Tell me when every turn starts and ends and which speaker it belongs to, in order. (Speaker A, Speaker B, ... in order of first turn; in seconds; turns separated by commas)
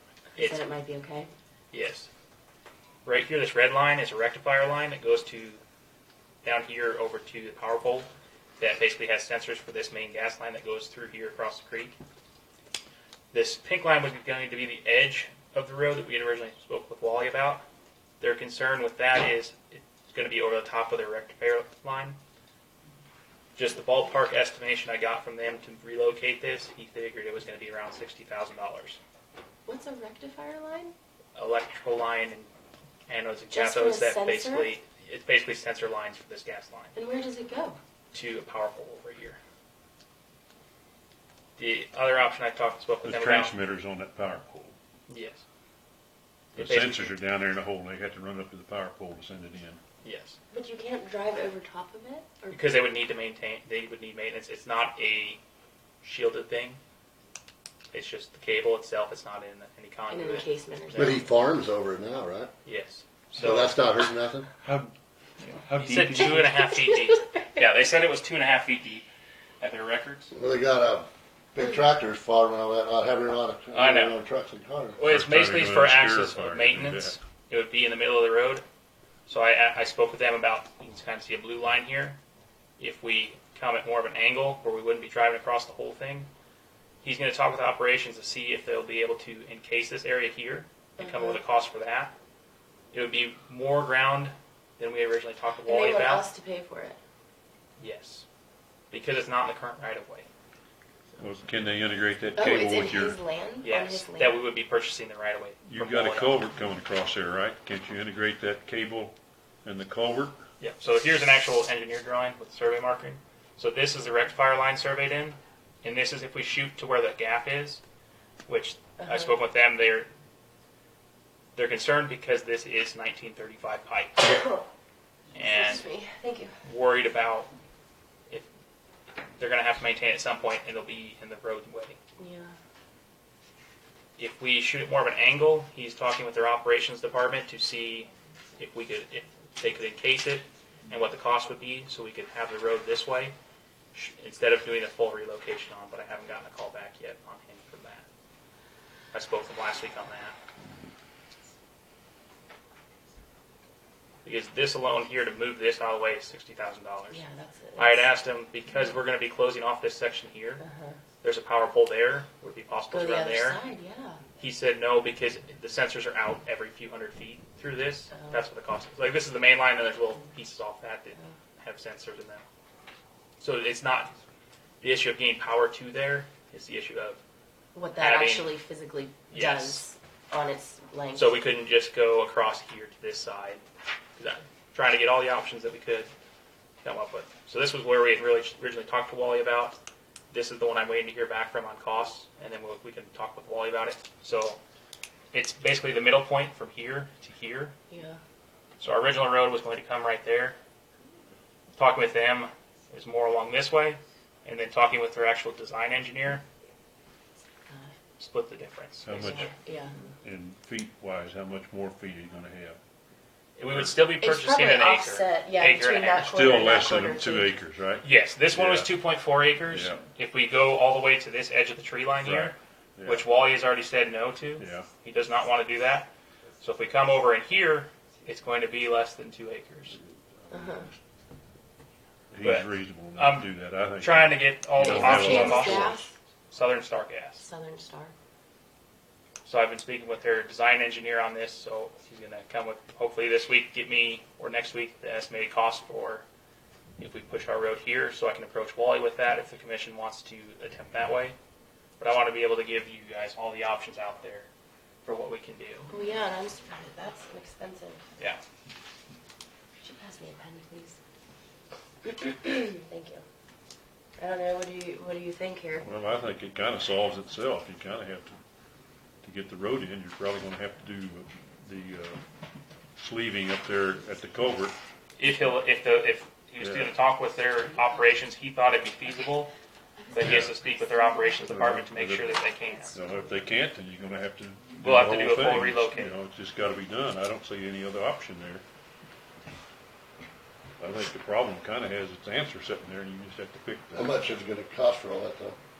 Speaker A: 0.3-1.3, Speaker B: 0.3-0.6, Speaker B: 1.7-2.1, Speaker B: 3.0-5.6, Speaker B: 6.4-8.1, Speaker B: 8.6-11.9, Speaker B: 13.3-17.6, Speaker B: 18.2-22.2, Speaker B: 23.6-29.0, Speaker A: 29.6-30.9, Speaker B: 31.3-32.5, Speaker B: 33.1-36.9, Speaker A: 33.5-34.7, Speaker A: 36.9-37.8, Speaker B: 38.1-39.4, Speaker B: 41.6-43.5, Speaker C: 43.0-44.8, Speaker B: 45.1-45.4, Speaker B: 46.5-47.1, Speaker C: 46.5-49.8, Speaker B: 50.0-50.4, Speaker A: 50.5-52.6, Speaker B: 52.5-55.4, Speaker B: 56.0-56.8, Speaker B: 57.9-61.2, Speaker A: 60.1-61.2, Speaker D: 61.0-62.5, Speaker B: 62.6-63.8, Speaker D: 63.4-64.5, Speaker C: 64.6-66.7, Speaker B: 65.8-69.0, Speaker A: 66.7-67.4, Speaker B: 69.6-70.3, Speaker D: 70.3-75.0, Speaker B: 73.7-74.2, Speaker B: 75.0-78.6, Speaker C: 75.1-77.2, Speaker B: 79.2-82.2, Speaker B: 82.8-86.3, Speaker B: 87.0-92.1, Speaker A: 91.0-91.4, Speaker B: 92.9-96.2, Speaker A: 95.6-97.0, Speaker B: 97.8-98.3, Speaker B: 98.9-100.3, Speaker C: 101.2-103.2, Speaker A: 102.4-104.4, Speaker B: 103.6-106.4, Speaker C: 105.6-110.4, Speaker B: 110.6-117.8, Speaker B: 118.5-120.1, Speaker A: 119.0-119.3, Speaker B: 121.5-124.4, Speaker B: 125.3-125.8, Speaker A: 125.4-126.5, Speaker B: 126.6-127.5, Speaker B: 129.4-132.0, Speaker A: 132.2-132.6, Speaker B: 134.2-143.3, Speaker B: 143.9-148.1, Speaker B: 149.1-150.3, Speaker B: 154.2-157.2, Speaker A: 157.1-158.1, Speaker B: 157.8-160.6, Speaker A: 160.6-161.0, Speaker B: 161.2-163.6, Speaker A: 162.9-164.2, Speaker B: 164.4-172.4, Speaker A: 168.1-168.4, Speaker B: 173.4-174.1, Speaker B: 174.8-177.2, Speaker A: 177.7-181.4, Speaker B: 177.9-178.5, Speaker B: 179.3-179.8, Speaker B: 181.1-183.6, Speaker B: 184.2-186.1, Speaker B: 186.8-189.8, Speaker B: 190.3-194.6, Speaker B: 195.3-197.7, Speaker A: 197.9-198.2, Speaker B: 198.8-200.6, Speaker B: 201.8-206.4, Speaker B: 208.2-209.5, Speaker C: 209.0-209.5, Speaker A: 209.2-210.0, Speaker C: 210.2-212.8, Speaker B: 213.6-216.7, Speaker C: 213.7-214.0, Speaker A: 214.2-217.6, Speaker C: 216.2-219.0, Speaker B: 218.0-230.0, Speaker C: 219.7-220.0, Speaker C: 222.2-223.2, Speaker C: 224.6-224.9, Speaker A: 230.5-230.9, Speaker C: 232.3-236.0, Speaker B: 232.4-233.5, Speaker B: 234.0-237.4, Speaker A: 234.8-236.1, Speaker A: 237.4-238.1, Speaker B: 239.4-246.2, Speaker B: 247.0-251.4, Speaker B: 252.0-254.5, Speaker B: 255.0-255.9, Speaker A: 255.9-258.0, Speaker A: 259.8-261.0, Speaker A: 262.0-263.2, Speaker A: 264.2-266.0, Speaker C: 265.8-268.3, Speaker C: 269.2-272.2, Speaker C: 273.0-274.8, Speaker B: 275.2-279.5, Speaker C: 276.6-276.9, Speaker B: 280.1-283.0, Speaker C: 280.2-280.5, Speaker A: 280.7-281.5, Speaker C: 281.4-282.4, Speaker A: 282.4-283.4, Speaker C: 282.9-288.6, Speaker B: 284.8-286.1, Speaker C: 290.8-294.2, Speaker D: 293.9-295.6